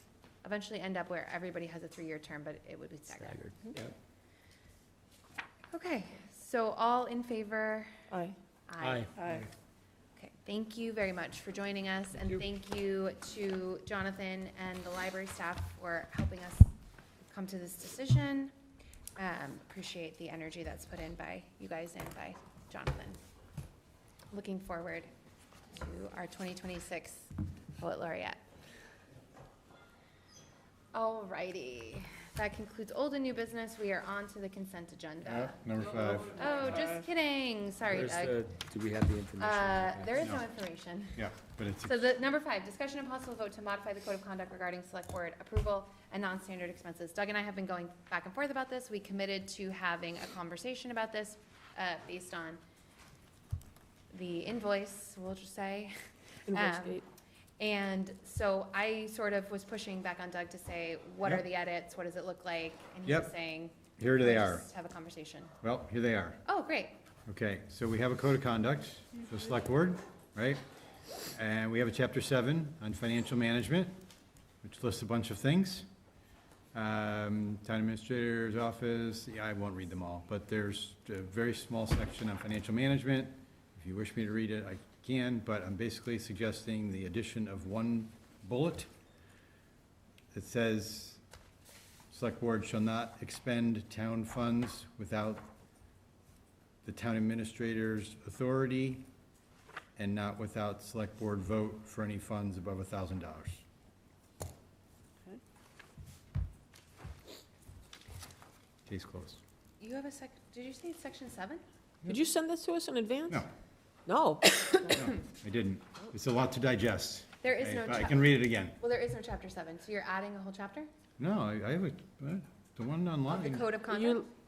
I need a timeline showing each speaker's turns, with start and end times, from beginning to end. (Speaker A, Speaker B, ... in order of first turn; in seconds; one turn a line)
Speaker A: 0.4-3.5
Speaker B: 3.1-3.9
Speaker A: 5.7-7.9
Speaker C: 8.1-8.3
Speaker A: 8.7-9.1
Speaker B: 8.8-9.1
Speaker C: 9.2-9.4
Speaker A: 10.2-16.7
Speaker A: 17.2-18.5
Speaker A: 19.2-23.2
Speaker A: 24.3-25.1
Speaker A: 25.7-28.4
Speaker A: 30.9-38.4
Speaker D: 35.2-36.8
Speaker B: 37.9-40.3
Speaker A: 39.4-41.3
Speaker D: 41.1-42.0
Speaker A: 41.8-52.6
Speaker A: 54.1-55.9
Speaker A: 56.5-57.0
Speaker C: 56.5-57.0
Speaker A: 57.6-65.5
Speaker D: 63.0-63.3
Speaker D: 64.0-64.7
Speaker D: 65.6-66.4
Speaker A: 66.4-66.9
Speaker D: 67.3-70.6
Speaker D: 71.3-74.0
Speaker D: 74.6-75.9
Speaker D: 76.7-88.9
Speaker D: 90.3-91.2
Speaker D: 92.1-95.5
Speaker D: 96.8-99.1
Speaker D: 100.0-103.6
Speaker D: 108.9-109.4
Speaker A: 109.8-111.6
Speaker C: 112.1-113.4
Speaker C: 114.1-114.9
Speaker D: 114.9-118.8
Speaker A: 117.4-120.9
Speaker D: 121.2-123.7
Speaker A: 123.3-124.3
Speaker C: 123.9-124.2